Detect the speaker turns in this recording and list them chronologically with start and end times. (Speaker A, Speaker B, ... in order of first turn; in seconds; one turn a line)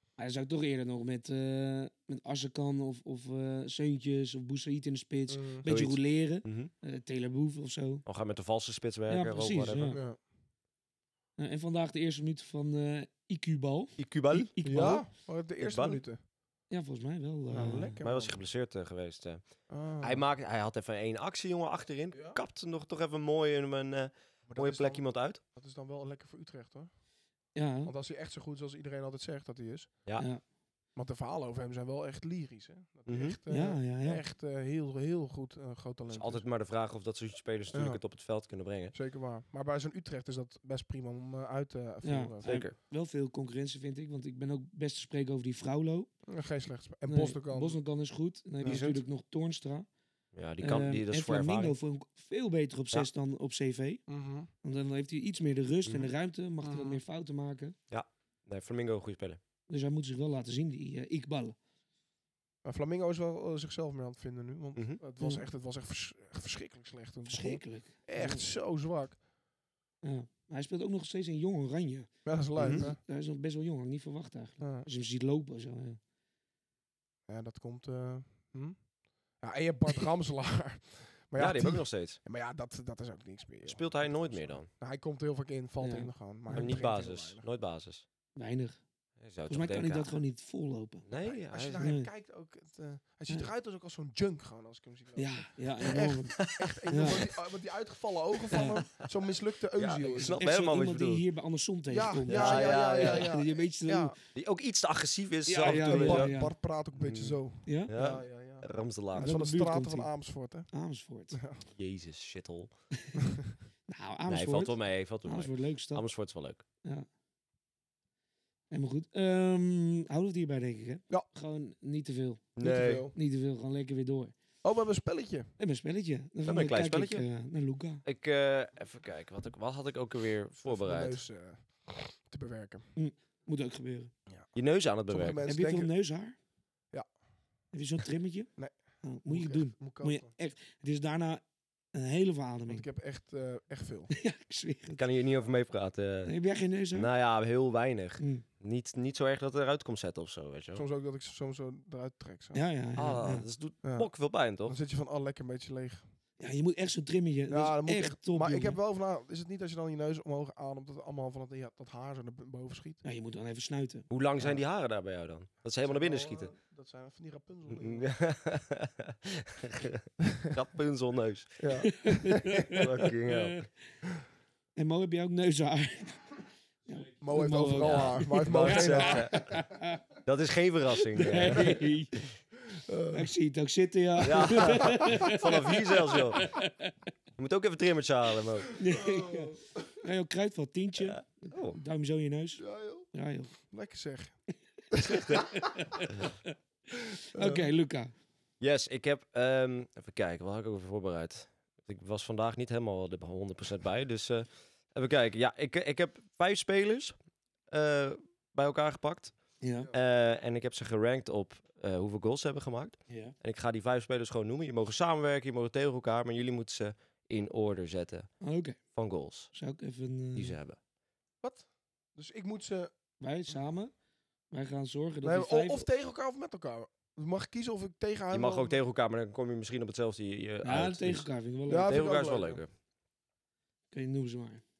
Speaker A: 0.2-8.1
Speaker B: 5.3-5.7
Speaker C: 5.7-6.7
Speaker C: 8.1-10.0
Speaker A: 9.1-10.0
Speaker B: 9.9-10.2
Speaker A: 11.4-15.1
Speaker C: 14.0-15.0
Speaker B: 14.6-16.2
Speaker C: 15.6-16.0
Speaker A: 16.7-18.0
Speaker B: 17.5-18.4
Speaker C: 18.0-19.4
Speaker B: 19.7-20.3
Speaker C: 20.0-25.4
Speaker B: 22.1-22.4
Speaker B: 24.5-26.9
Speaker A: 27.6-27.9
Speaker B: 27.9-29.9
Speaker B: 31.0-36.4
Speaker C: 33.1-33.4
Speaker A: 33.5-34.2
Speaker C: 36.1-39.0
Speaker B: 37.7-38.0
Speaker B: 38.9-42.6
Speaker A: 42.0-46.1
Speaker C: 42.4-42.8
Speaker B: 46.3-47.8
Speaker A: 47.1-49.9
Speaker C: 48.6-49.0
Speaker C: 50.3-51.8
Speaker A: 50.6-54.0
Speaker B: 54.1-54.5
Speaker A: 54.6-57.8
Speaker B: 56.6-57.0
Speaker C: 57.9-59.4
Speaker A: 59.7-61.6
Speaker B: 62.6-69.2
Speaker C: 64.8-65.0
Speaker A: 67.3-68.5
Speaker A: 70.0-72.1
Speaker B: 72.2-73.0
Speaker C: 72.6-72.8
Speaker A: 72.6-76.0
Speaker B: 74.6-74.9
Speaker B: 77.3-78.8
Speaker B: 79.4-87.5
Speaker C: 81.4-82.2
Speaker C: 83.7-84.7
Speaker A: 85.8-86.8
Speaker C: 86.5-88.0
Speaker A: 88.4-88.8
Speaker C: 89.2-90.1
Speaker A: 89.5-91.1
Speaker C: 91.1-91.9
Speaker B: 91.2-100.4
Speaker A: 91.8-92.1
Speaker A: 95.2-97.2
Speaker C: 96.3-97.2
Speaker C: 98.5-99.1
Speaker A: 98.5-98.8
Speaker C: 99.8-101.2
Speaker A: 100.4-104.2
Speaker B: 101.9-104.2
Speaker C: 102.3-103.3
Speaker C: 104.3-106.4
Speaker A: 105.5-106.5
Speaker B: 105.6-110.7
Speaker C: 107.0-109.3
Speaker A: 107.7-107.9
Speaker A: 109.2-110.1
Speaker A: 110.7-111.4
Speaker B: 111.3-111.7
Speaker C: 111.7-112.7
Speaker A: 113.9-116.0
Speaker C: 114.3-116.6
Speaker A: 118.7-122.5
Speaker C: 122.6-123.1
Speaker B: 122.6-123.1
Speaker A: 123.1-124.3
Speaker B: 124.6-125.5
Speaker A: 125.6-128.0
Speaker C: 126.5-127.3
Speaker C: 128.1-131.2
Speaker B: 130.7-132.9
Speaker A: 133.0-134.1
Speaker C: 134.6-135.4
Speaker B: 135.1-135.9
Speaker A: 135.5-136.4
Speaker A: 137.7-138.5
Speaker A: 139.0-141.4
Speaker B: 139.3-140.3
Speaker A: 141.9-142.9
Speaker B: 142.7-144.1
Speaker A: 144.1-145.0
Speaker C: 145.0-146.3
Speaker A: 146.2-147.1
Speaker C: 146.9-150.9
Speaker A: 148.2-148.4
Speaker B: 150.7-152.6
Speaker A: 152.5-153.5
Speaker C: 153.0-154.8
Speaker B: 153.8-154.1
Speaker B: 154.7-156.0
Speaker A: 156.4-158.8
Speaker B: 157.5-163.0
Speaker A: 163.0-164.1
Speaker C: 164.1-166.5
Speaker B: 165.8-168.1
Speaker C: 167.7-171.7
Speaker B: 171.6-172.5
Speaker A: 171.9-173.7
Speaker C: 172.7-173.7
Speaker A: 174.8-180.0
Speaker B: 177.2-179.7
Speaker C: 177.8-179.6
Speaker C: 180.2-181.9
Speaker A: 181.2-182.2
Speaker B: 182.7-183.3
Speaker A: 183.1-187.0
Speaker C: 184.2-186.5
Speaker C: 187.4-188.8
Speaker A: 188.8-193.6
Speaker B: 188.9-189.9
Speaker C: 191.0-191.8
Speaker B: 192.6-193.1
Speaker B: 193.6-194.4
Speaker B: 194.9-195.7
Speaker A: 195.1-198.1
Speaker B: 197.3-197.7
Speaker C: 198.6-207.2
Speaker C: 207.7-209.3
Speaker A: 209.6-209.9
Speaker C: 209.9-218.3
Speaker A: 213.1-213.3
Speaker A: 218.4-218.8
Speaker C: 218.9-219.5
Speaker A: 219.5-220.6
Speaker C: 220.3-220.8
Speaker B: 221.4-222.9
Speaker A: 223.2-223.9
Speaker A: 224.5-225.9
Speaker B: 225.2-228.8
Speaker C: 228.3-231.3
Speaker A: 230.6-232.0
Speaker B: 231.7-232.6
Speaker C: 231.9-232.7
Speaker A: 233.9-234.6